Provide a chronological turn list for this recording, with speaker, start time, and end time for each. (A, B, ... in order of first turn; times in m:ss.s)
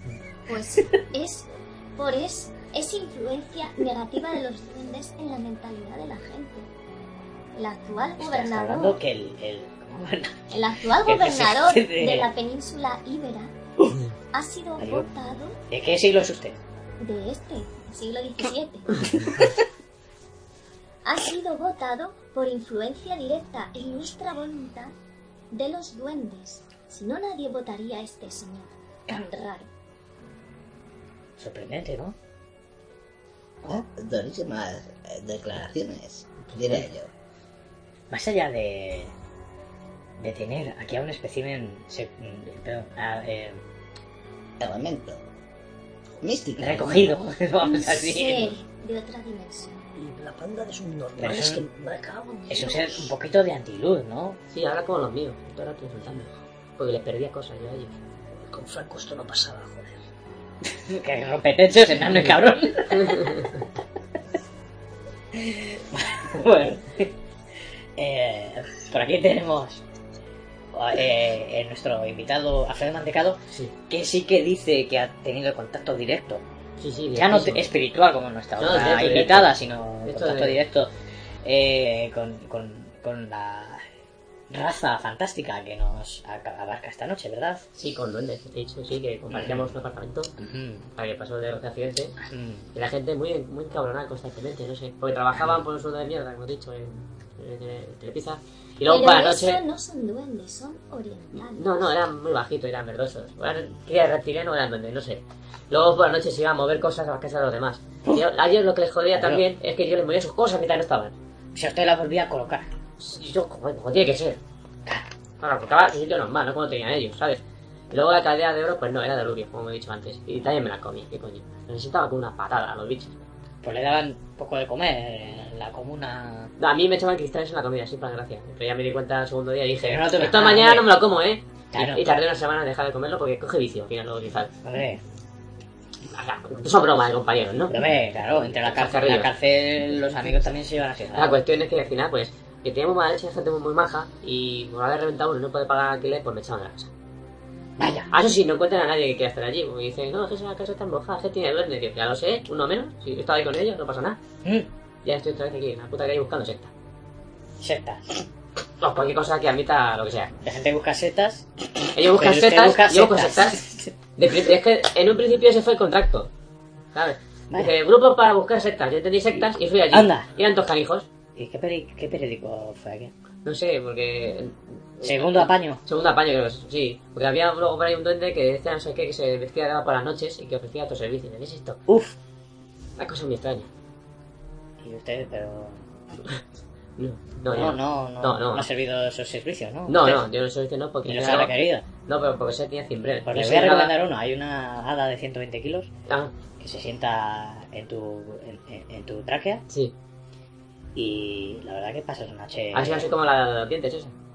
0:00.5-0:06.7 A
0:07.6-0:09.0 A
0:08.2-0:10.4 B
0:10.5-0:13.5 A
0:11.0-0:12.3 B
0:14.3-0:15.6 A
0:14.8-0:15.1 B
0:15.7-0:16.6 B
0:17.0-0:19.3 A
0:21.0-0:24.9 A
0:25.5-0:29.7 A
0:31.4-0:32.1 B
0:33.6-0:37.1 C
0:38.1-0:39.1 B
0:40.2-0:43.6 B
0:44.6-0:45.2 C
0:46.2-0:47.2 C
0:46.6-0:48.6 B
0:47.6-0:49.8 A
0:50.0-0:53.1 D
0:51.2-0:51.6 B
0:52.5-0:54.4 B
0:54.5-0:58.0 E
0:58.3-1:00.0 D
1:00.7-1:03.5 B
1:05.3-1:07.1 B
1:08.0-1:09.8 B
1:10.7-1:16.4 B
1:16.8-1:17.6 E
1:17.1-1:20.9 B
1:18.6-1:19.5 E
1:20.0-1:20.6 E
1:21.4-1:23.8 B
1:24.5-1:27.6 B
1:27.8-1:30.3 E
1:29.3-1:29.6 B
1:30.4-1:30.9 B
1:31.0-1:32.2 E
1:32.2-1:32.7 B
1:32.7-1:39.6 E
1:38.8-1:41.9 A
1:41.5-1:51.1 E
1:49.1-1:49.4 B
1:51.5-1:52.7 B
1:53.0-1:54.4 E
1:55.4-2:03.2 E
2:03.6-2:06.5 B
2:06.6-2:14.5 E
2:09.8-2:10.9 B
2:11.7-2:12.0 B
2:14.6-2:15.0 B
2:16.1-2:17.8 E
2:17.7-2:21.4 B
2:18.6-2:19.3 E
2:21.1-2:26.9 E
2:27.8-2:28.1 B
2:28.1-2:34.2 E
2:35.0-2:36.7 E
2:37.6-2:38.0 B
2:38.8-2:40.3 E
2:40.4-2:41.4 B
2:41.9-2:43.6 E
2:42.0-2:43.9 B
2:44.2-2:46.3 E
2:46.9-2:51.1 E
2:49.9-2:50.3 B
2:51.4-2:53.1 B
2:53.4-3:01.8 E
2:55.0-2:55.8 B
3:01.9-3:02.2 B
3:03.0-3:03.7 E
3:04.8-3:05.8 B
3:07.0-3:08.6 E
3:07.5-3:10.2 B
3:09.9-3:11.5 E
3:11.0-3:11.8 B
3:12.0-3:13.9 E
3:13.3-3:15.9 B
3:16.6-3:19.6 B
3:20.9-3:23.1 B
3:22.7-3:24.1 E